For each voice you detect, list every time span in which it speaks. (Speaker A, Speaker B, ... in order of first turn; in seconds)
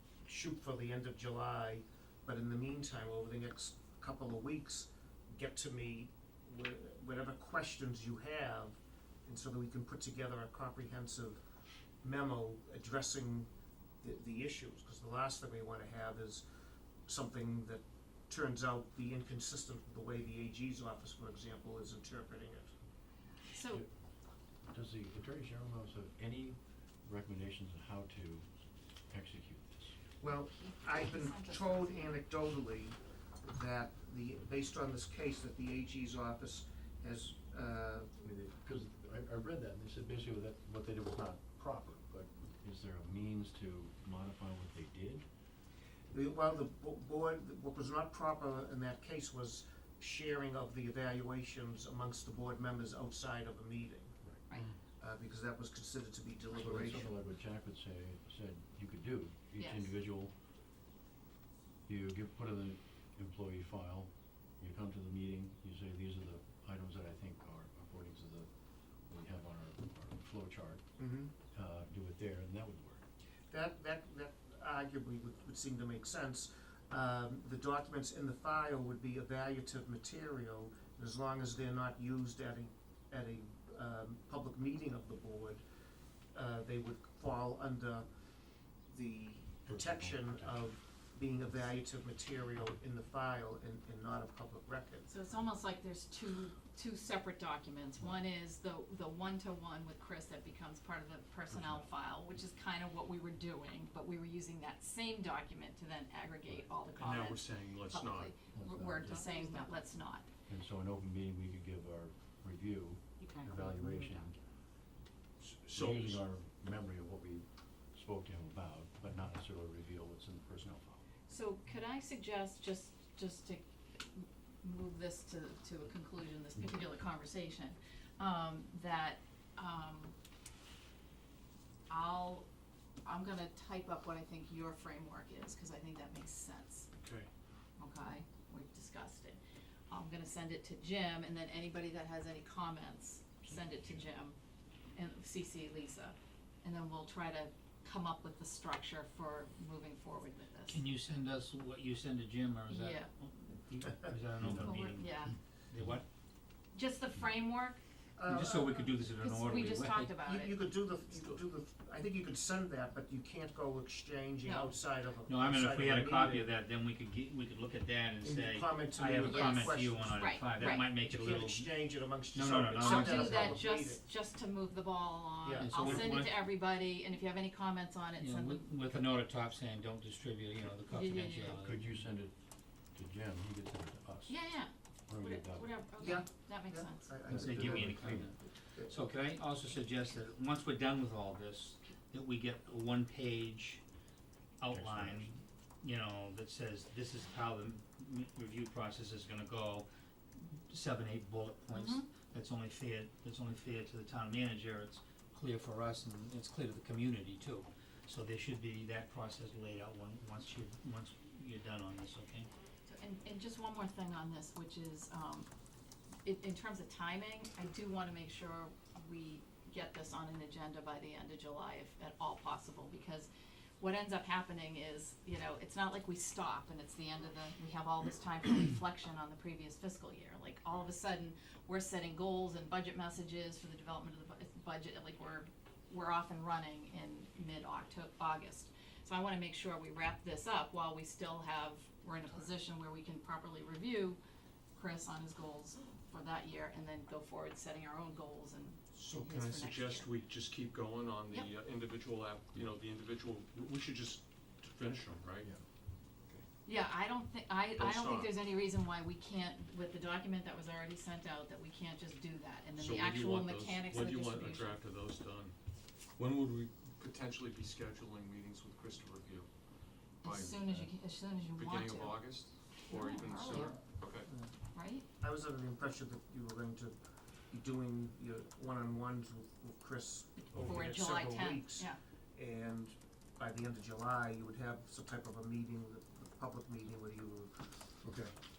Speaker A: 0.2-11.4, 12.0-13.5, 14.0-16.4, 17.1-22.7, 30.2-38.1, 46.1-54.2, 55.0-57.1, 71.0-71.3, 73.5-85.6, 86.3-88.1, 88.8-95.1, 158.2-158.8, 160.2-166.5, 168.2-174.0, 175.4-176.1, 186.0-188.9, 275.2-276.9, 277.5-287.7
Speaker B: 23.5-23.8, 30.5-32.2, 59.6-59.9, 95.1-110.2, 121.3-130.1, 131.9-132.5, 133.0-136.9, 137.8-144.4, 144.9-150.8, 152.7-153.1, 154.5-155.3, 156.7-157.8, 159.2-160.6, 164.4-164.7, 169.2-170.9, 172.8-179.0, 180.9-181.6, 184.3-187.1, 201.7-202.1, 212.8-215.5, 216.2-223.3, 223.8-244.2, 244.7-250.1, 256.6-264.8, 270.2-272.3, 272.9-273.8, 274.7-275.0, 280.6-282.0
Speaker C: 24.7-28.5, 29.1-30.0, 38.2-45.2, 56.5-60.3, 61.9-68.5, 69.0-73.0, 89.7-90.7, 101.5-101.9, 108.5-109.5, 110.5-114.4, 115.7-121.0, 154.4-154.8, 181.6-182.3, 182.9-184.4, 185.1-185.7, 187.3-188.3, 194.7-195.4
Speaker D: 107.0-108.3, 115.4-116.2, 137.0-137.3, 248.9-255.5, 257.8-258.4, 262.8-265.5, 266.1-269.5, 270.2-271.0, 271.5-274.3
Speaker E: 150.7-156.0, 158.2-160.2, 165.3-171.7, 172.3-173.6, 175.6-176.5, 178.2-181.8, 187.3-193.8, 194.6-212.5